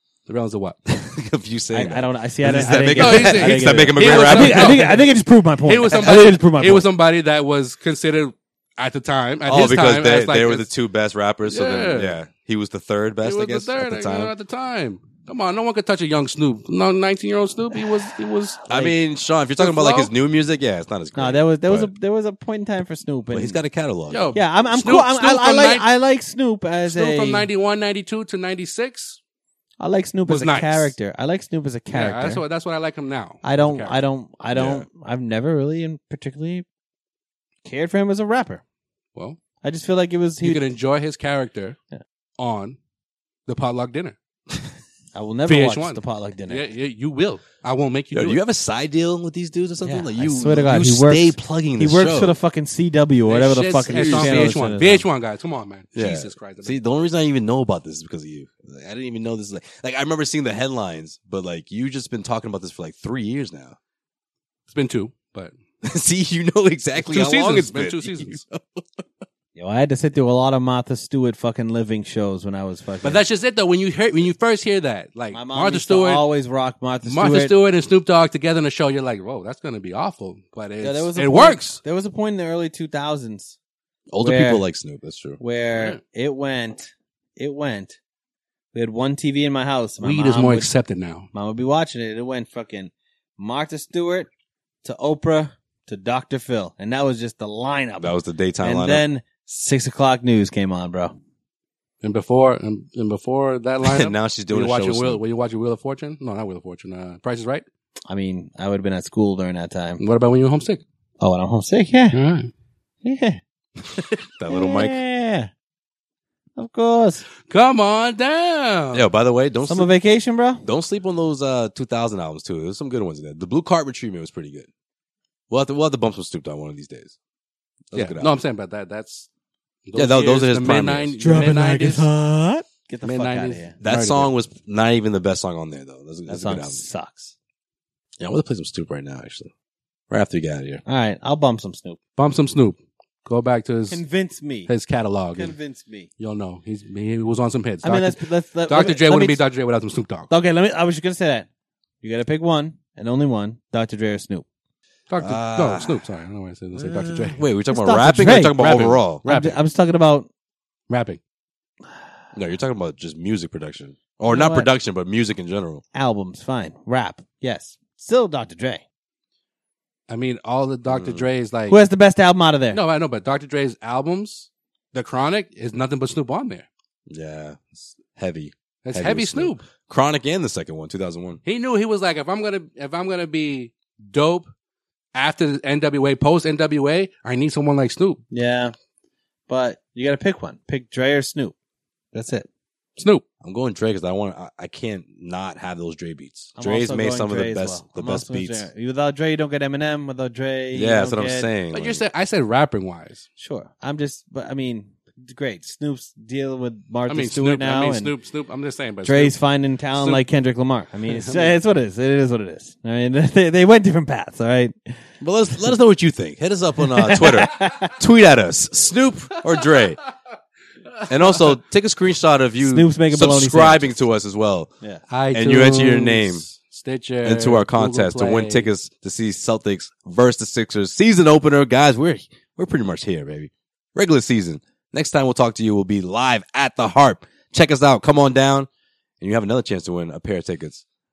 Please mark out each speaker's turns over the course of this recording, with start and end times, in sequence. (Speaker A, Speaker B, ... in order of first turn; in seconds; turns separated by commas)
Speaker A: 0.3-0.8, Speaker B: 0.8-5.0, Speaker C: 1.7-6.8, Speaker A: 2.5-5.1, Speaker A: 5.7-10.7, Speaker B: 9.5-14.3, Speaker A: 11.5-12.2, Speaker A: 13.2-18.6, Speaker C: 18.7-18.9, Speaker B: 18.7-21.9, Speaker A: 19.6-20.1, Speaker C: 21.1-23.6, Speaker B: 23.3-24.4, Speaker A: 24.1-25.9, Speaker C: 24.3-27.5, Speaker A: 26.9-29.2, Speaker C: 29.8-32.4, Speaker A: 30.3-30.9, Speaker A: 31.9-34.0, Speaker C: 33.4-36.6, Speaker B: 34.5-34.9, Speaker C: 37.6-38.6, Speaker C: 39.6-40.7, Speaker A: 40.4-41.8, Speaker A: 42.4-42.8, Speaker A: 43.5-44.2, Speaker C: 45.1-46.6, Speaker A: 45.5-48.4, Speaker B: 48.1-52.4, Speaker C: 49.8-55.0, Speaker A: 53.3-56.8, Speaker B: 53.8-54.5, Speaker B: 55.9-63.8, Speaker A: 64.7-65.5, Speaker B: 65.8-69.0, Speaker A: 67.0-68.4, Speaker C: 69.5-73.2, Speaker A: 73.0-76.2, Speaker C: 75.3-77.5, Speaker A: 77.0-81.8, Speaker C: 80.8-83.6, Speaker B: 84.1-85.4, Speaker C: 84.2-84.6, Speaker C: 85.4-88.0, Speaker C: 88.7-90.7, Speaker A: 90.0-91.3, Speaker C: 91.3-94.3, Speaker C: 94.8-101.1, Speaker B: 98.0-99.0, Speaker A: 102.0-107.6, Speaker B: 103.8-105.2, Speaker C: 108.1-110.0, Speaker A: 110.0-110.8, Speaker C: 111.2-112.2, Speaker A: 112.1-112.5, Speaker C: 113.0-113.4, Speaker B: 114.4-115.0, Speaker C: 114.5-115.5, Speaker C: 116.6-117.2, Speaker A: 117.5-119.1, Speaker B: 118.9-119.9, Speaker C: 119.7-120.6, Speaker B: 120.6-124.7, Speaker B: 125.5-127.1, Speaker B: 127.9-128.3, Speaker A: 127.9-129.3, Speaker A: 129.9-132.1, Speaker B: 129.9-131.1, Speaker C: 131.2-133.7, Speaker A: 133.0-134.3, Speaker B: 133.8-136.8, Speaker C: 136.3-137.3, Speaker B: 138.2-139.5, Speaker B: 140.1-140.8, Speaker C: 140.8-142.0, Speaker A: 142.2-144.0, Speaker C: 143.9-144.7, Speaker A: 144.7-145.6, Speaker C: 145.3-146.1, Speaker A: 146.2-150.3, Speaker C: 147.8-149.4, Speaker C: 150.3-151.5, Speaker C: 152.0-154.4, Speaker A: 155.1-157.4, Speaker B: 155.2-156.1, Speaker B: 156.7-159.2, Speaker C: 157.7-158.6, Speaker A: 158.5-159.6, Speaker C: 159.2-160.3, Speaker A: 160.9-161.2, Speaker B: 162.3-165.8, Speaker C: 164.3-164.7, Speaker C: 165.9-168.8, Speaker A: 170.1-171.8, Speaker B: 170.9-171.3, Speaker C: 171.7-172.8, Speaker A: 172.7-176.7, Speaker B: 177.1-181.4, Speaker A: 178.8-179.6, Speaker A: 181.4-184.5, Speaker A: 185.1-188.2, Speaker C: 188.3-188.7, Speaker C: 189.5-191.5, Speaker C: 192.1-192.5, Speaker A: 193.0-193.2, Speaker B: 193.4-198.7, Speaker C: 196.6-201.5, Speaker B: 200.7-202.0, Speaker A: 201.7-203.2, Speaker C: 203.4-208.1, Speaker A: 207.1-209.4, Speaker C: 209.0-214.7, Speaker A: 209.9-210.2, Speaker A: 211.1-211.5, Speaker B: 215.2-220.0, Speaker C: 216.9-217.9, Speaker B: 221.1-224.7, Speaker C: 222.6-224.0, Speaker A: 225.1-228.7, Speaker B: 225.3-226.4, Speaker B: 227.2-238.7, Speaker B: 239.2-240.8